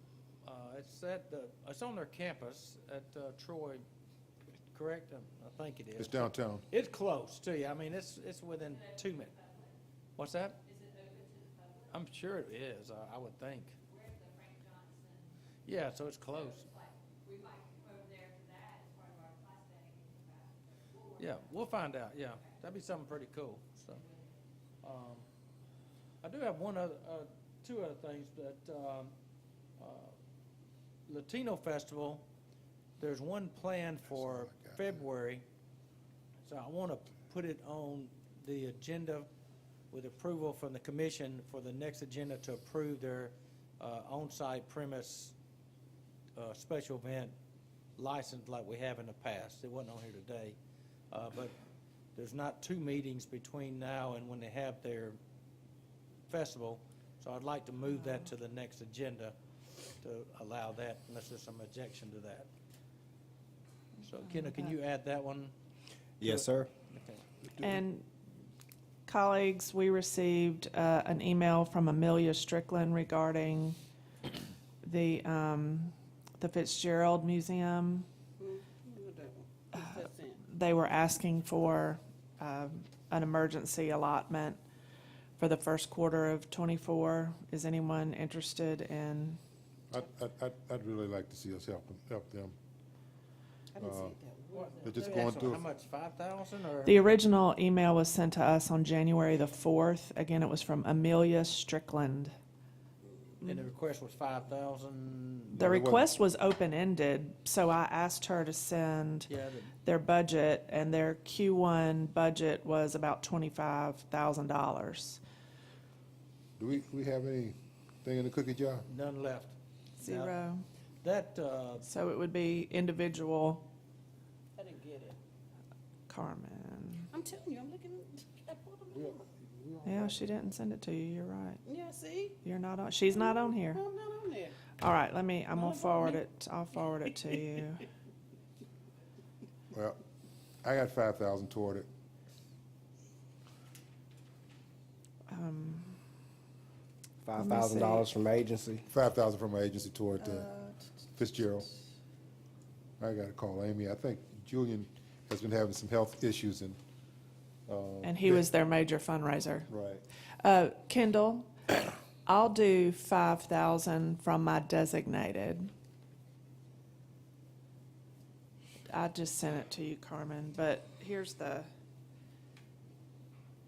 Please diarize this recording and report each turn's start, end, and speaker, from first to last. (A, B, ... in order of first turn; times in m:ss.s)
0:00.4-0:03.8 A
0:04.7-0:09.3 A
0:06.0-0:06.6 B
0:08.9-0:09.7 C
0:10.2-0:10.6 A
0:10.7-0:11.9 C
0:11.9-0:13.8 A
0:13.9-0:15.3 C
0:15.7-0:16.7 A
0:16.4-0:21.2 C
0:21.2-0:24.0 A
0:24.8-0:25.3 A
0:26.2-0:29.1 A
0:29.8-0:30.2 A
0:31.1-0:32.2 A
0:33.0-0:35.4 A
0:34.2-0:34.9 B
0:36.5-0:39.3 A
0:39.9-0:45.4 A
0:46.4-0:47.3 A
0:48.0-0:50.6 A
0:51.1-0:51.6 A
0:52.2-0:55.2 A
0:56.3-0:59.4 A
1:00.0-1:02.5 A
1:04.0-1:05.5 A
1:04.2-1:04.7 D
1:06.2-1:06.7 E
1:06.2-1:07.2 A
1:07.6-1:08.1 D
1:09.1-1:13.8 D
1:14.8-1:18.1 D
1:18.4-1:20.4 F
1:19.8-1:24.6 D
1:25.4-1:29.4 D
1:29.9-1:32.5 B
1:33.8-1:35.6 F
1:33.8-1:34.2 B
1:34.5-1:37.1 A
1:34.8-1:35.6 B
1:36.8-1:42.3 D
1:43.4-1:45.6 A
1:45.6-1:46.1 B
1:45.6-1:49.3 D
1:49.3-1:49.7 A
1:49.8-1:55.2 D
1:56.6-1:58.9 B
1:58.9-2:00.3 A
2:00.0-2:00.6 D
2:01.0-2:01.9 A
2:01.8-2:03.7 D
2:04.6-2:05.2 F
2:06.1-2:07.1 D
2:07.1-2:09.3 F
2:08.9-2:10.4 B
2:09.8-2:11.6 D
2:11.7-2:12.4 F
2:12.4-2:13.8 D
2:13.1-2:14.6 F
2:14.8-2:17.8 D
2:15.5-2:16.2 F
2:19.7-2:20.0 B
2:20.6-2:21.9 B
2:25.3-2:26.0 D
2:27.2-2:28.8 E
2:27.3-2:28.1 D
2:28.9-2:30.5 B
2:30.2-2:30.9 D
2:31.2-2:31.7 B
2:33.0-2:36.8 B
2:37.7-2:38.4 B
2:38.0-2:39.7 D
2:39.7-2:40.0 B
2:40.4-2:41.6 D
2:42.3-2:45.7 D
2:48.9-2:51.7 D